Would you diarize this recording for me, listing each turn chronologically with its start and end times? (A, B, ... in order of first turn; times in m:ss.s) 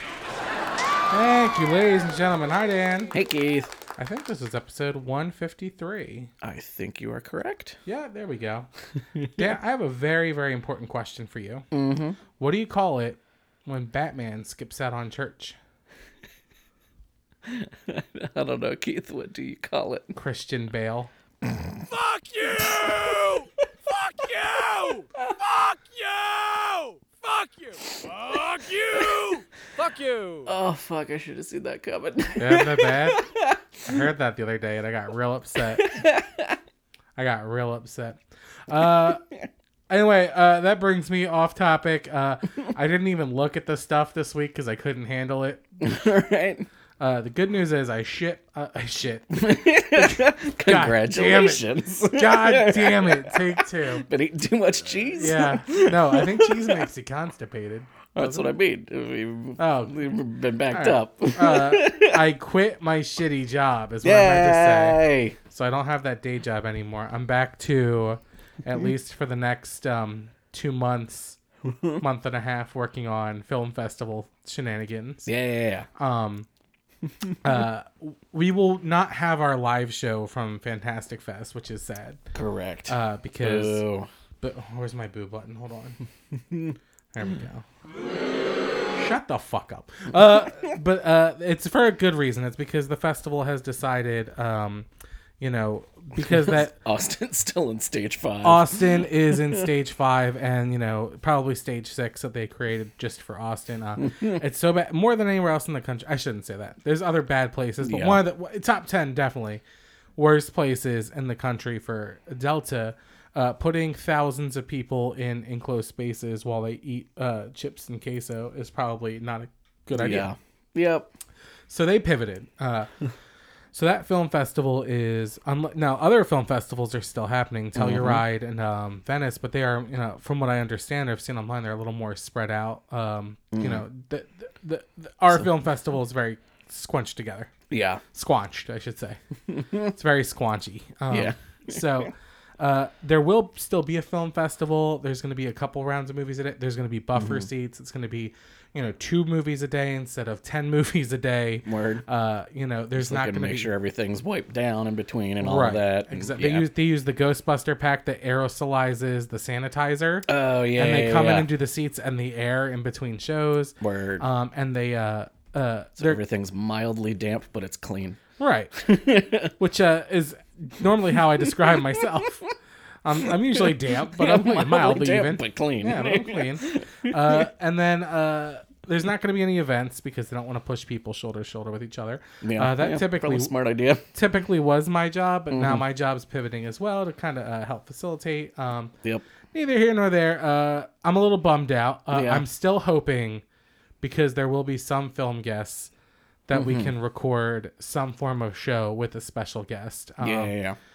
0:01.1-0:03.2 A
0:03.1-0:03.7 B
0:04.0-0:06.3 A
0:06.4-0:07.8 B
0:07.9-0:08.7 A
0:09.2-0:09.5 B
0:09.3-0:11.7 A
0:11.7-0:12.2 B
0:12.4-0:15.6 A
0:17.5-0:20.2 B
0:20.2-0:21.1 A
0:22.0-0:23.3 C
0:22.6-0:23.4 B
0:24.2-0:25.0 C
0:26.0-0:27.5 C
0:28.2-0:29.4 C
0:28.9-0:29.3 B
0:29.8-0:30.5 A
0:30.0-0:30.3 C
0:30.4-0:34.1 B
0:32.4-0:33.2 A
0:33.9-0:35.9 A
0:35.7-0:36.6 B
0:37.2-0:39.2 A
0:39.1-0:39.4 B
0:39.9-0:45.6 A
0:45.8-0:46.7 B
0:47.0-0:54.1 A
0:49.3-0:56.9 B
0:55.2-0:58.5 A
0:58.2-1:02.2 B
0:59.6-1:00.0 A
1:00.7-1:11.4 A
1:04.0-1:05.4 B
1:11.6-1:12.0 B
1:12.0-1:15.3 A
1:15.3-1:15.9 B
1:16.0-1:16.5 A
1:17.4-1:22.2 A
1:22.3-1:24.1 B
1:22.9-1:23.8 A
1:24.4-1:26.0 A
1:26.3-1:26.8 B
1:27.1-1:27.7 A
1:29.0-1:34.9 A
1:35.4-1:36.8 A
1:36.2-1:39.7 B
1:38.4-1:49.6 A
1:44.0-1:44.4 B
1:47.8-1:48.2 B
1:50.2-2:00.3 A
2:00.0-2:01.1 B
2:01.7-2:02.9 A
2:03.7-2:17.5 A
2:07.8-2:08.2 B
2:13.5-2:13.8 B
2:17.7-2:18.0 B
2:18.1-2:19.2 A
2:19.5-2:19.9 B
2:19.9-2:33.7 A
2:21.1-2:22.1 B
2:27.2-2:27.5 B
2:31.7-2:32.0 B
2:33.0-2:36.7 B
2:35.4-2:46.2 A
2:40.3-2:41.5 B
2:43.8-2:44.2 B
2:46.0-2:48.2 B
2:48.4-2:48.7 A
2:48.8-2:49.5 B
2:49.6-2:52.4 A
2:51.4-2:52.1 B
2:53.0-3:03.5 A
2:53.6-2:57.5 B
3:02.4-3:04.1 B
3:04.1-3:08.9 A
3:05.5-3:05.8 B
3:09.5-3:13.4 A
3:12.1-3:12.4 B
3:14.0-3:15.9 A
3:16.5-3:20.5 A
3:16.5-3:16.9 B
3:20.2-3:20.8 B